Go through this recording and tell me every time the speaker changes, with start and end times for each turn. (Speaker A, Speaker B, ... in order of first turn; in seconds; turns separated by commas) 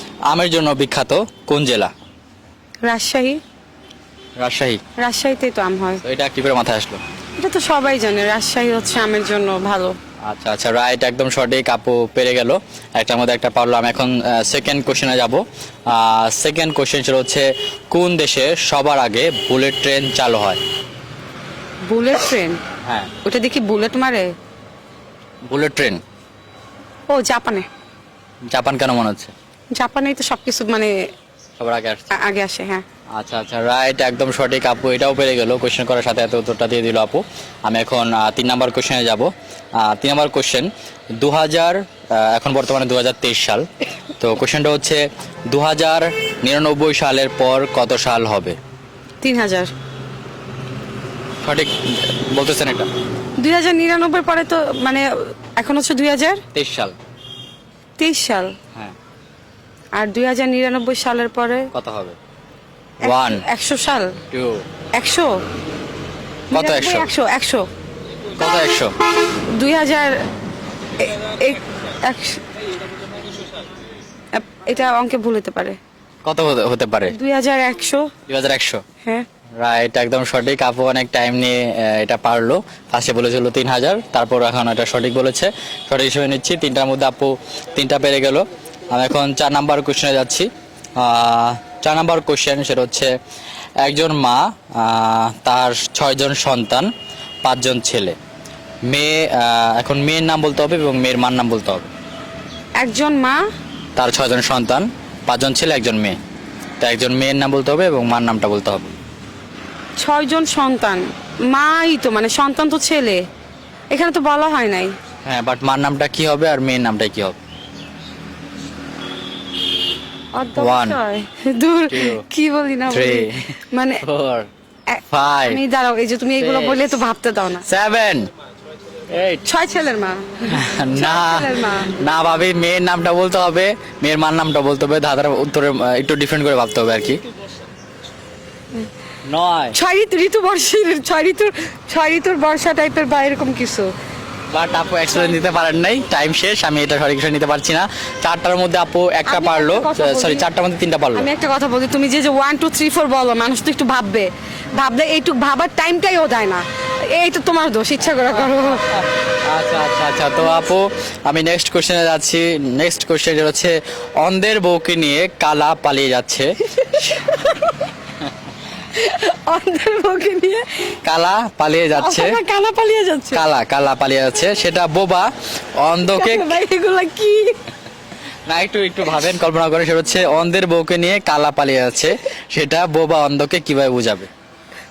Speaker A: 0.3-1.9, Speaker B: 2.8-3.4, Speaker A: 4.4-4.8, Speaker B: 5.0-6.0, Speaker A: 6.0-7.0, Speaker B: 7.4-9.9, Speaker A: 10.2-20.6, Speaker B: 21.9-22.6, Speaker A: 22.8-23.1, Speaker B: 23.2-24.3, Speaker A: 25.5-26.0, Speaker B: 27.1-27.7, Speaker A: 28.5-29.3, Speaker B: 29.7-30.9, Speaker A: 31.6-32.1, Speaker B: 32.1-32.8, Speaker A: 33.1-43.7, Speaker A: 44.2-48.6, Speaker B: 49.2-49.7, Speaker A: 51.4-52.9, Speaker B: 53.4-55.0, Speaker B: 55.6-56.4, Speaker A: 56.5-56.9, Speaker B: 58.0-58.5, Speaker B: 59.9-61.7, Speaker A: 61.7-62.2, Speaker A: 63.0-63.4, Speaker B: 63.0-64.2, Speaker A: 64.3-64.6, Speaker B: 64.9-65.4, Speaker B: 66.5-67.7, Speaker A: 66.5-67.1, Speaker A: 68.4-68.9, Speaker B: 69.5-70.2, Speaker B: 71.0-72.4, Speaker B: 74.3-75.8, Speaker A: 76.2-77.2, Speaker B: 77.1-78.1, Speaker A: 78.3-78.8, Speaker A: 79.6-93.1, Speaker A: 93.8-96.9, Speaker A: 97.4-98.2, Speaker A: 98.9-101.9, Speaker B: 102.8-103.4, Speaker A: 104.0-106.2, Speaker A: 106.8-108.9, Speaker B: 110.0-113.2, Speaker B: 113.9-114.9, Speaker A: 115.2-117.4, Speaker B: 120.3-124.0, Speaker A: 120.6-121.0, Speaker A: 121.9-122.2, Speaker A: 122.9-124.5, Speaker B: 124.9-127.7, Speaker A: 125.1-125.6, Speaker A: 126.4-127.0, Speaker A: 127.6-128.3, Speaker A: 129.1-129.4, Speaker B: 129.4-131.9, Speaker A: 130.5-137.2, Speaker A: 139.2-139.8, Speaker B: 139.7-143.9, Speaker A: 144.5-151.3, Speaker B: 149.2-150.4, Speaker B: 151.1-158.9, Speaker A: 158.8-167.4, Speaker B: 166.8-167.9, Speaker B: 168.9-170.9, Speaker A: 171.0-172.4, Speaker B: 171.9-173.4, Speaker A: 173.3-176.6, Speaker B: 176.0-177.6, Speaker A: 178.5-184.3